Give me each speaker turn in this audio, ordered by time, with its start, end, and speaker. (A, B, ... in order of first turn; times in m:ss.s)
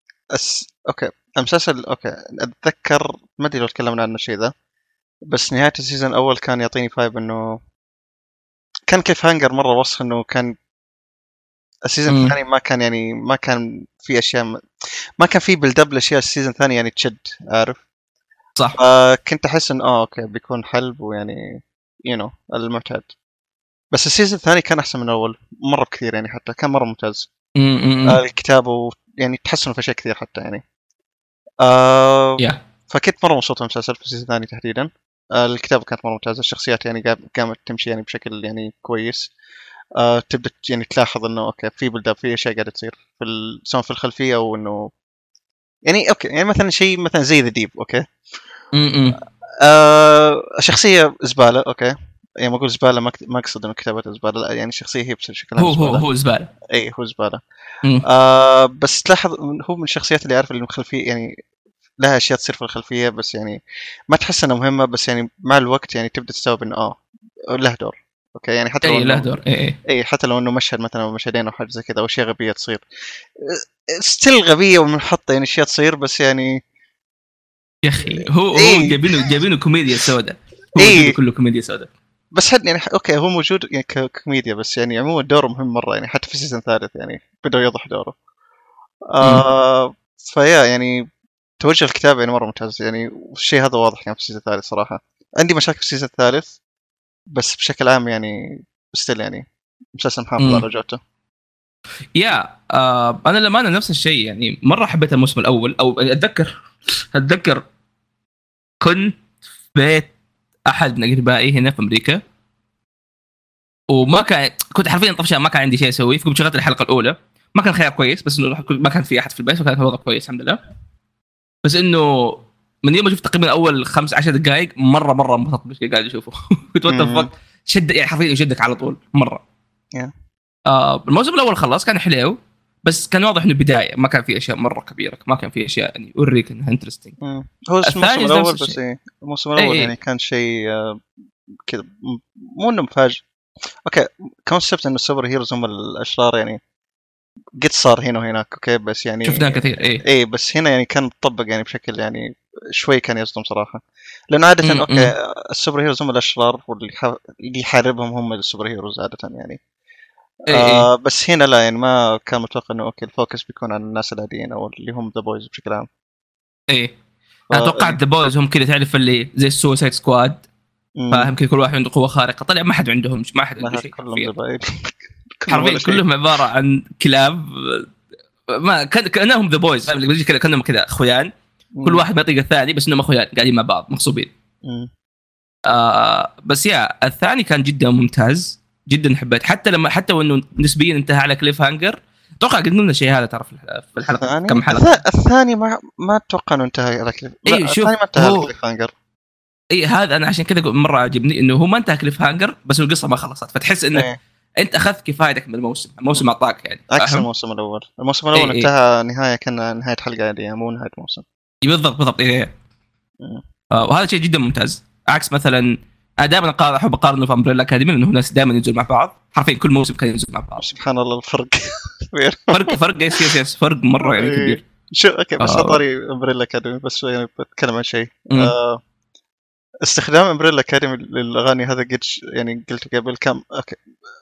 0:00.3-0:04.5 A
0:05.3-0:07.6 A
0:08.9-0:10.6 A
0:11.9-0:14.6 A
0:12.1-0:12.4 B
0:15.2-0:17.8 A
0:18.8-0:23.1 A
0:23.9-0:27.3 A
0:27.6-0:28.2 B
0:28.0-0:30.6 A
0:31.6-0:39.3 A
0:40.0-0:44.9 A
0:45.9-0:48.0 A
0:48.7-0:49.2 B
0:49.6-0:56.0 A
0:55.6-0:56.5 B
0:56.7-0:57.4 A
0:58.1-1:01.3 A
1:02.0-1:03.6 A
1:04.1-1:07.0 A
1:07.5-1:09.3 A
1:08.8-1:09.8 B
1:09.9-1:12.8 A
1:13.4-1:16.6 A
1:17.8-1:21.9 B
1:18.5-1:19.4 A
1:20.8-1:21.2 A
1:22.4-1:28.2 A
1:29.1-1:31.0 A
1:31.6-1:36.5 A
1:37.3-1:38.4 A
1:38.9-1:39.4 A
1:40.0-1:41.0 A
1:42.2-1:46.5 B
1:47.1-1:47.6 B
1:48.8-1:50.1 B
1:50.7-1:52.2 B
1:53.9-2:00.6 B
2:01.6-2:09.4 B
2:06.9-2:07.3 A
2:10.7-2:17.2 B
2:17.2-2:21.0 A
2:17.8-2:18.8 B
2:19.6-2:19.9 B
2:21.7-2:23.2 A
2:23.9-2:26.6 A
2:27.6-2:32.3 A
2:29.2-2:30.0 B
2:32.8-2:33.8 A
2:34.3-2:39.6 A
2:34.6-2:35.1 B
2:40.5-2:45.9 A
2:40.5-2:40.9 B
2:46.7-2:47.0 B
2:47.5-2:48.0 A
2:47.5-2:50.4 B
2:51.0-2:51.3 A
2:51.1-2:54.3 B
2:53.6-2:56.0 A
2:55.5-2:57.9 B
2:58.5-3:01.3 B
3:01.8-3:02.1 A
3:01.8-3:04.3 B
3:04.6-3:04.9 A
3:05.6-3:14.9 B
3:14.1-3:18.9 A
3:17.5-3:18.5 B
3:19.7-3:24.1 B
3:24.6-3:27.3 B
3:26.9-3:31.2 A
3:28.4-3:28.7 B
3:31.6-3:32.5 B
3:33.7-3:40.7 B
3:40.6-3:43.3 A
3:42.5-3:44.6 B
3:44.0-3:48.8 A
3:45.4-3:45.8 B
3:49.8-3:53.8 A